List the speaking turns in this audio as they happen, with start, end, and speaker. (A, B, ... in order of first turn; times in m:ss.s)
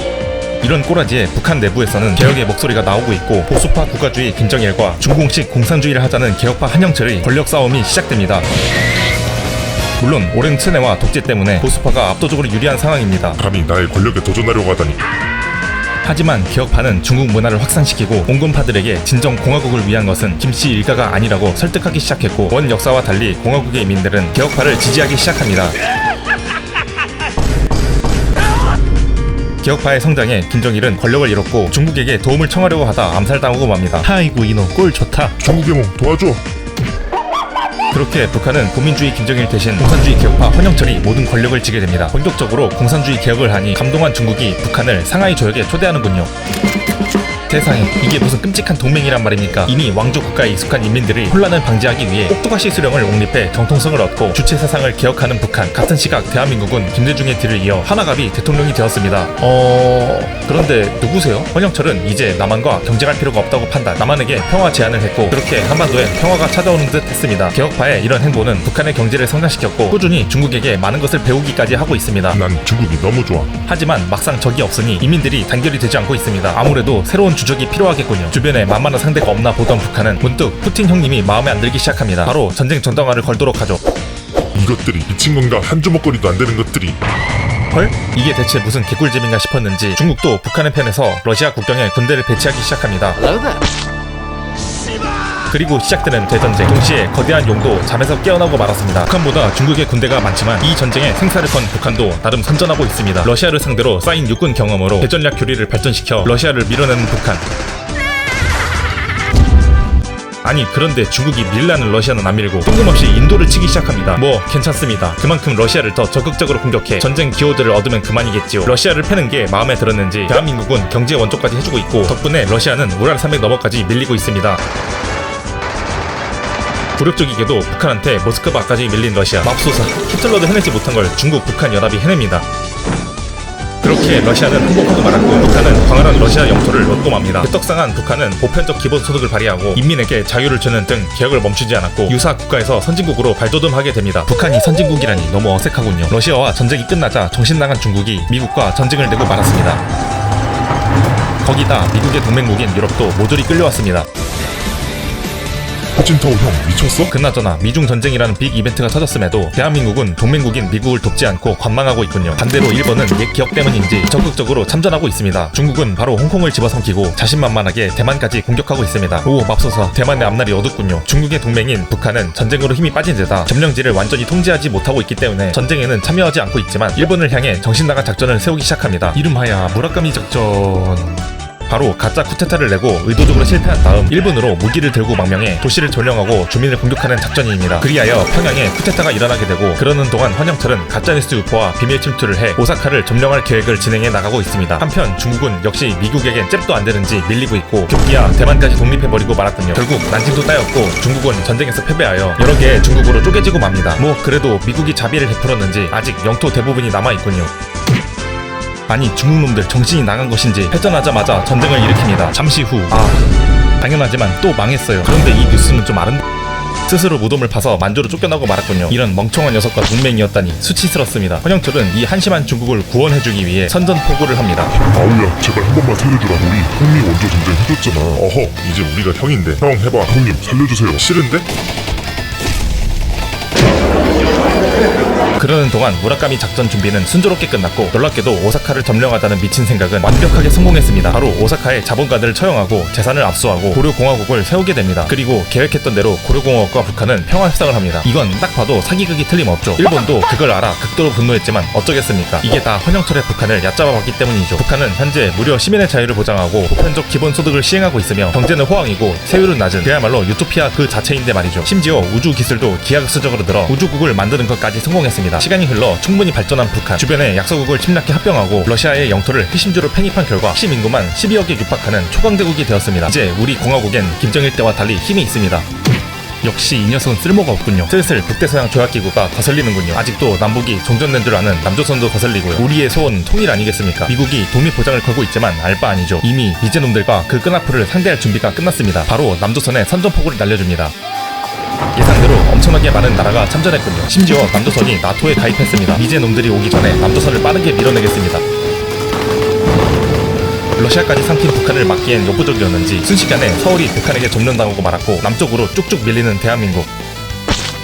0:00.6-0:08.5 A
0:10.0-0:13.4 A
0:13.4-0:15.0 B
0:16.0-0:25.8 A
0:29.6-0:35.4 A
0:35.4-0:36.4 B
0:37.9-0:46.3 A
0:47.5-1:12.4 A
1:12.3-1:13.5 B
1:13.7-1:23.8 A
1:24.5-1:27.0 B
1:27.7-1:33.4 A
1:35.5-1:47.5 A
1:50.4-2:04.6 A
2:07.0-2:12.4 A
2:13.8-2:29.8 A
2:31.4-2:34.1 A
2:36.0-2:37.1 B
2:37.1-3:27.5 A
3:28.9-3:33.3 A
3:33.8-3:36.2 A
3:36.9-3:44.7 A
3:44.9-3:51.5 B
3:55.4-4:35.7 A
4:36.4-4:50.9 A
4:52.0-4:58.4 A
5:00.8-5:06.9 A